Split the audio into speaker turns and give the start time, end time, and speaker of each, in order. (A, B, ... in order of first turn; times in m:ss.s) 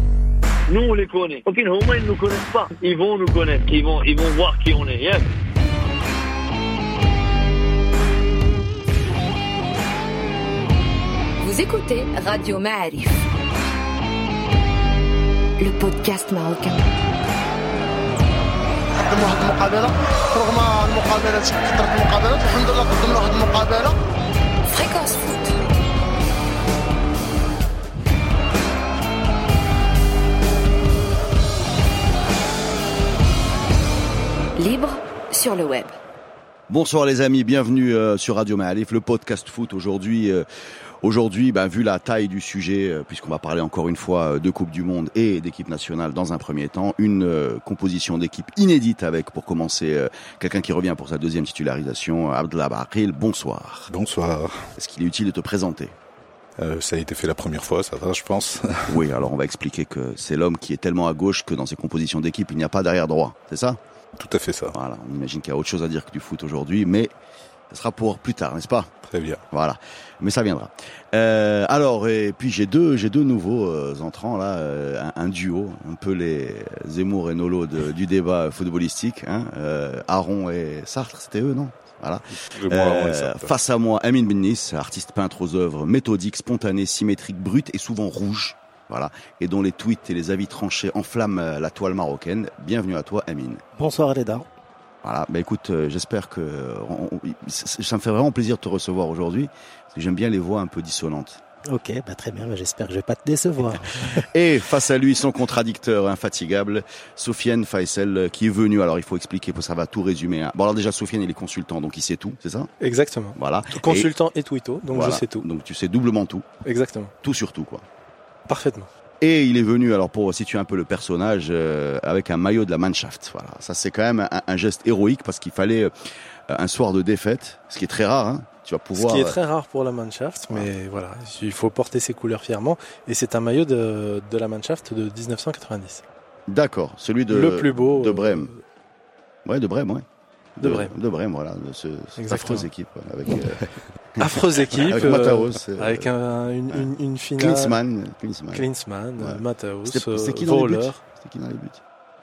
0:00.7-0:05.3 A
0:11.4-0:13.3 B
0:15.6-0:16.8 B
0:18.9-0:24.0 C
0:24.6-0:25.6 B
0:34.6-0:36.0 B
0:36.7-0:40.4 D
0:41.0-0:53.9 D
0:53.9-0:54.6 E
0:54.8-0:55.9 D
0:56.6-0:59.0 E
0:58.9-1:03.8 D
1:04.2-1:04.8 E
1:04.7-1:07.1 D
1:07.7-1:08.9 D
1:09.1-1:09.4 E
1:09.5-1:33.6 D
1:22.4-1:23.5 E
1:33.8-1:34.4 F
1:35.0-1:41.4 D
1:41.7-1:44.3 F
1:44.1-1:52.7 D
1:52.8-1:55.4 G
1:53.3-1:54.1 D
1:54.9-1:56.4 D
1:56.6-1:57.1 G
1:57.2-1:57.8 D
1:58.5-1:58.9 G
1:59.2-2:05.9 D
2:06.5-2:09.4 D
2:08.9-2:16.0 G
2:16.5-2:18.5 D
2:17.3-2:18.6 G
2:19.4-2:20.0 D
2:20.6-2:26.1 D
2:20.6-2:20.9 G
2:22.2-2:22.7 G
2:24.2-2:27.8 G
2:26.7-2:28.7 D
2:28.5-2:31.0 G
2:29.2-2:31.8 D